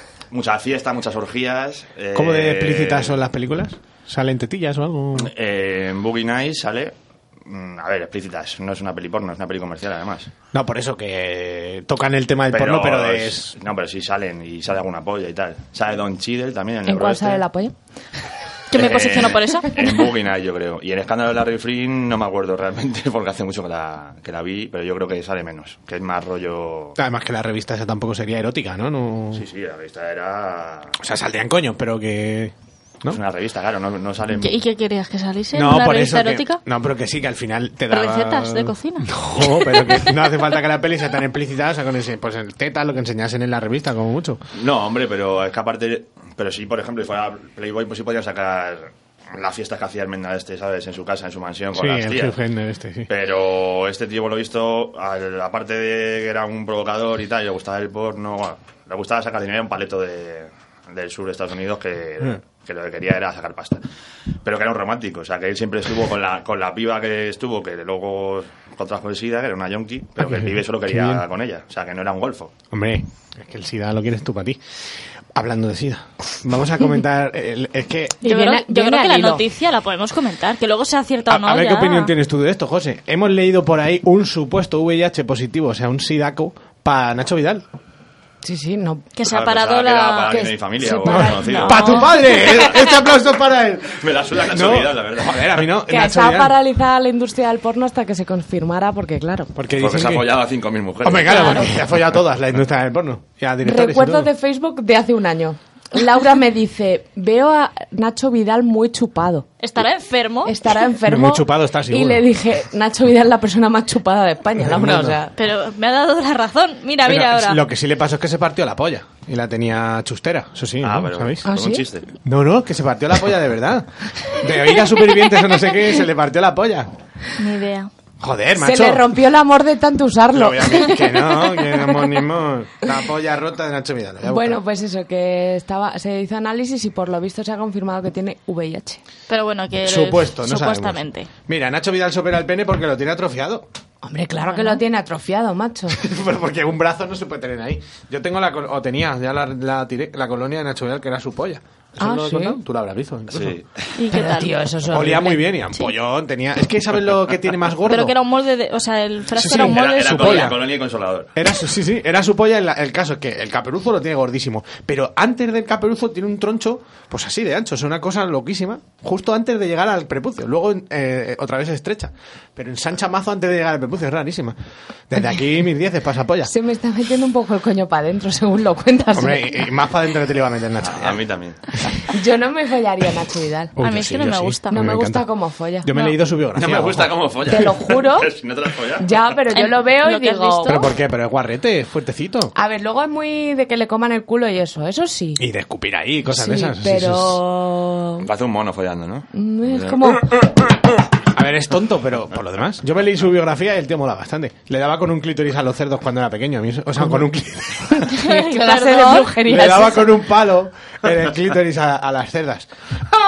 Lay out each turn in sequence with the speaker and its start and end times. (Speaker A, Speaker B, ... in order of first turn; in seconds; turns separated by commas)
Speaker A: 0.3-3.2, Speaker B: 2.1-5.3, Speaker A: 5.2-6.9, Speaker A: 7.4-10.3, Speaker B: 10.5-13.6, Speaker A: 12.5-17.4, Speaker C: 16.9-17.7, Speaker D: 18.7-19.8, Speaker A: 18.7-26.9, Speaker B: 26.9-29.4, Speaker A: 29.3-30.9, Speaker B: 31.0-33.2, Speaker A: 33.1-34.5, Speaker D: 34.4-36.6, Speaker B: 35.5-44.4, Speaker D: 37.9-40.1, Speaker A: 44.5-52.4, Speaker B: 51.7-53.1, Speaker A: 53.1-63.8, Speaker A: 64.4-72.5, Speaker B: 70.2-71.2, Speaker B: 72.7-74.6, Speaker B: 75.3-78.2, Speaker C: 78.2-79.4, Speaker D: 78.2-82.1, Speaker B: 81.3-87.6, Speaker C: 88.4-89.0, Speaker D: 89.2-90.5, Speaker A: 89.2-91.8, Speaker C: 90.3-92.4, Speaker B: 91.0-96.6, Speaker D: 91.0-92.6, Speaker A: 93.9-95.7, Speaker C: 95.9-99.5, Speaker B: 99.5-100.3, Speaker A: 99.7-101.6, Speaker B: 101.0-104.3, Speaker D: 101.3-101.7, Speaker C: 103.6-109.5, Speaker D: 109.6-110.5, Speaker C: 110.5-115.3, Speaker B: 111.0-112.3, Speaker B: 114.6-115.2, Speaker D: 115.4-117.6, Speaker B: 117.0-121.5, Speaker A: 120.8-122.1, Speaker C: 121.4-121.8, Speaker B: 122.2-126.9, Speaker D: 127.4-127.9, Speaker B: 128.2-129.1, Speaker C: 128.6-131.7, Speaker B: 130.3-134.6, Speaker C: 134.3-139.0, Speaker D: 139.3-141.3, Speaker B: 139.8-143.7, Speaker C: 144.0-146.0, Speaker D: 144.5-144.8, Speaker B: 145.9-153.6, Speaker C: 152.0-152.6, Speaker A: 153.3-153.9, Speaker D: 154.0-154.5, Speaker C: 154.1-155.5, Speaker B: 154.9-158.1, Speaker D: 157.9-160.5, Speaker B: 159.3-160.7, Speaker A: 159.6-161.3, Speaker B: 161.3-174.6, Speaker B: 175.1-176.5, Speaker C: 176.4-179.6, Speaker B: 179.1-181.2, Speaker A: 180.8-181.6, Speaker C: 182.1-183.7, Speaker B: 183.8-185.3, Speaker D: 183.8-184.9, Speaker C: 184.7-185.9, Speaker B: 185.8-187.2, Speaker A: 186.5-189.3, Speaker C: 187.5-188.3, Speaker C: 189.0-190.8, Speaker D: 189.5-190.9, Speaker B: 190.7-192.5, Speaker C: 192.5-195.4, Speaker B: 195.4-197.4, Speaker C: 196.3-198.3, Speaker A: 198.2-199.9, Speaker C: 199.3-200.3, Speaker B: 201.2-208.1, Speaker C: 207.9-210.2, Speaker D: 208.2-209.4, Speaker B: 209.4-212.7